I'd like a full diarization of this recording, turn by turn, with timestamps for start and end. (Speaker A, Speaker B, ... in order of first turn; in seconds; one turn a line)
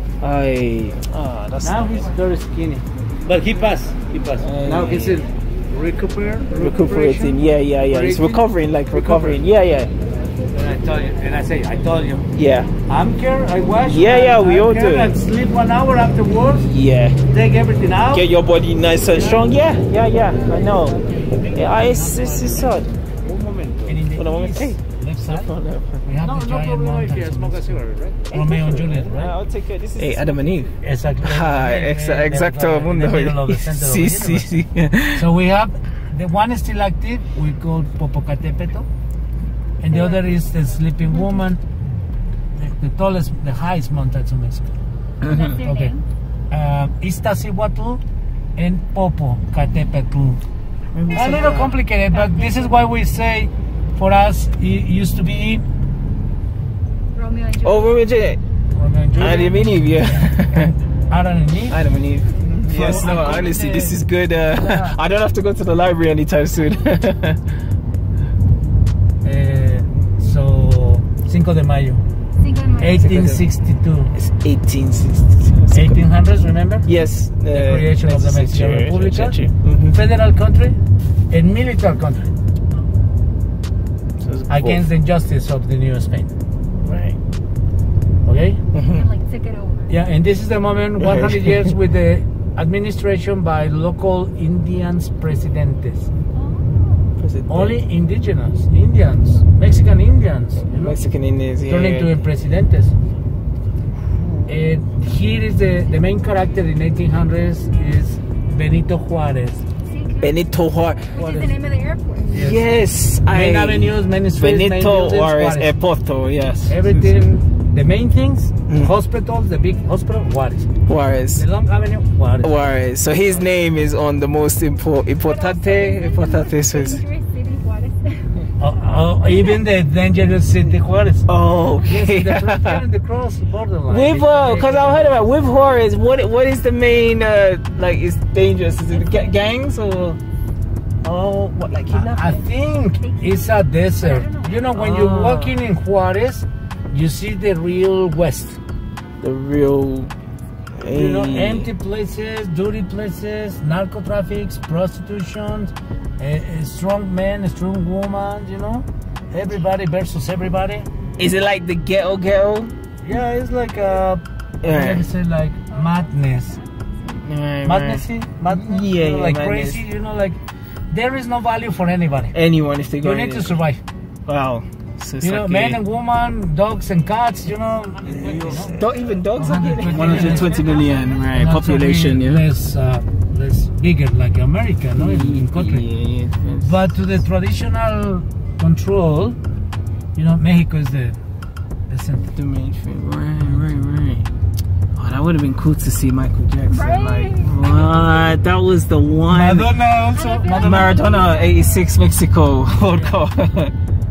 Speaker A: 0.2-2.1
Speaker B: 1.6-9.4
Speaker A: 4.4-5.2
Speaker A: 6.5-9.9
Speaker B: 10.5-12.3
Speaker A: 12.3-12.7
Speaker B: 12.9-16.7
Speaker A: 13.9-15.2
Speaker A: 16.6-17.2
Speaker B: 17.3-18.3
Speaker A: 18.1-21.0
Speaker C: 20.5-21.0
Speaker B: 21.0-22.8
Speaker A: 21.5-22.9
Speaker C: 23.2-23.9
Speaker B: 23.9-29.4
Speaker A: 24.1-26.0
Speaker C: 26.2-28.3
Speaker A: 28.3-35.3
Speaker C: 30.1-30.5
Speaker B: 30.8-34.5
Speaker B: 35.1-38.9
Speaker B: 39.8-41.6
Speaker B: 42.6-44.8
Speaker A: 45.2-45.6
Speaker D: 45.2-46.0
Speaker B: 45.6-46.0
Speaker B: 46.5-48.0
Speaker B: 48.6-50.4
Speaker A: 50.9-51.8
Speaker B: 51.1-55.6
Speaker D: 52.2-52.6
Speaker D: 57.1-58.0
Speaker A: 57.6-58.4
Speaker B: 58.7-60.4
Speaker A: 59.2-60.8
Speaker B: 61.1-61.8
Speaker A: 61.7-67.5
Speaker B: 62.7-64.0
Speaker B: 64.5-65.0
Speaker B: 69.2-72.0
Speaker D: 72.4-73.0
Speaker B: 72.8-74.1
Speaker A: 72.8-73.4
Speaker A: 74.2-76.0
Speaker B: 75.7-76.9
Speaker A: 76.9-80.0
Speaker B: 77.5-79.4
Speaker B: 79.9-80.8
Speaker B: 81.3-82.3
Speaker A: 84.2-84.9
Speaker B: 84.5-86.3
Speaker A: 86.8-87.2
Speaker B: 88.2-88.6
Speaker A: 88.7-89.1
Speaker D: 88.9-89.9
Speaker B: 89.9-96.1
Speaker A: 91.0-91.8
Speaker D: 96.3-97.1
Speaker A: 97.2-97.8
Speaker B: 97.5-101.0
Speaker A: 100.7-102.2
Speaker B: 101.7-102.9
Speaker A: 104.1-104.6
Speaker B: 104.5-109.6
Speaker D: 109.9-110.3
Speaker A: 110.2-111.2
Speaker D: 111.1-112.3
Speaker B: 111.2-111.5
Speaker A: 112.2-117.0
Speaker B: 112.3-112.7
Speaker B: 113.3-115.8
Speaker B: 116.7-120.7
Speaker A: 120.9-121.5
Speaker B: 121.3-122.6
Speaker A: 122.4-127.0
Speaker D: 125.2-128.2
Speaker B: 128.6-135.3
Speaker A: 131.3-132.8
Speaker A: 133.9-140.2
Speaker A: 141.0-142.4
Speaker B: 141.9-148.6
Speaker D: 143.0-143.3
Speaker D: 144.0-144.7
Speaker A: 144.8-145.6
Speaker A: 149.2-150.1
Speaker A: 150.8-151.7
Speaker B: 150.9-160.9
Speaker A: 161.2-162.7
Speaker B: 163.0-166.6
Speaker A: 164.6-165.1
Speaker D: 165.9-167.2
Speaker A: 167.2-169.8
Speaker B: 167.6-170.4
Speaker B: 170.9-172.3
Speaker A: 172.3-173.6
Speaker B: 173.0-173.8
Speaker A: 174.3-175.8
Speaker B: 175.2-178.8
Speaker A: 178.0-182.4
Speaker B: 179.3-180.6
Speaker D: 179.9-181.2
Speaker B: 181.3-185.8
Speaker A: 184.9-186.8
Speaker B: 186.6-189.4
Speaker B: 190.2-191.2
Speaker B: 191.9-192.4
Speaker A: 192.3-194.3
Speaker A: 194.9-199.7
Speaker D: 196.7-198.2
Speaker B: 199.3-201.0
Speaker D: 200.2-201.9
Speaker A: 200.5-203.7
Speaker B: 202.8-203.2